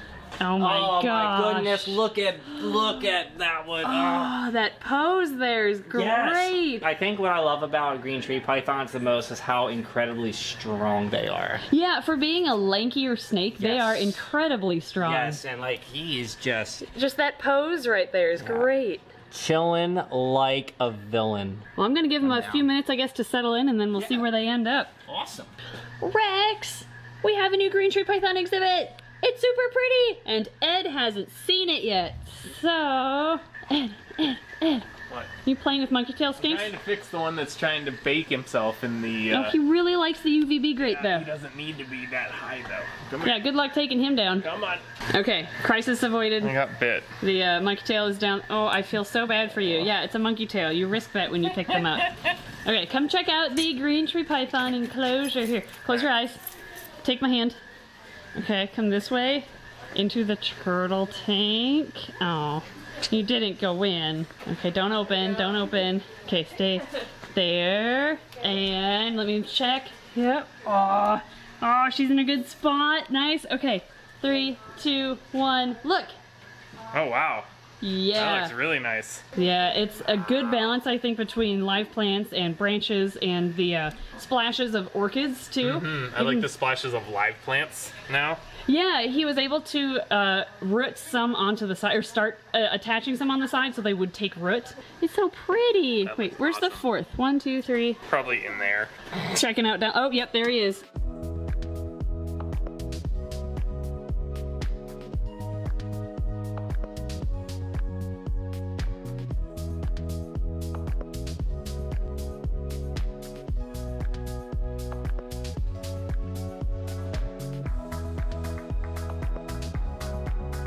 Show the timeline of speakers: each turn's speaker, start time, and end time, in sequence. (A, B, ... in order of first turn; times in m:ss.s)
0:00.4-0:02.0 A
0:00.6-0:04.3 B
0:03.8-0:06.8 A
0:05.9-0:11.6 B
0:11.7-0:15.4 A
0:13.6-0:14.3 B
0:15.0-0:16.8 B
0:16.8-0:19.1 A
0:18.4-0:18.7 B
0:19.3-0:21.6 B
0:21.8-0:24.9 A
0:22.2-0:22.6 B
0:25.1-0:25.5 B
0:26.0-0:34.9 A
0:35.4-0:36.8 A
0:36.4-0:39.6 C
0:39.3-0:41.3 A
0:40.8-0:43.4 C
0:43.2-0:44.5 A
0:44.4-0:44.8 C
0:45.1-0:46.6 A
0:46.4-0:47.1 C
0:47.2-0:56.4 A
0:57.0-0:57.6 A
0:58.4-1:16.1 A
1:16.9-1:17.5 C
1:17.8-1:18.6 A
1:18.1-1:19.2 C
1:19.4-1:26.5 A
1:25.6-1:28.4 C
1:28.6-1:38.0 A
1:36.0-1:36.8 C
1:38.1-1:38.9 C
1:39.2-1:40.8 A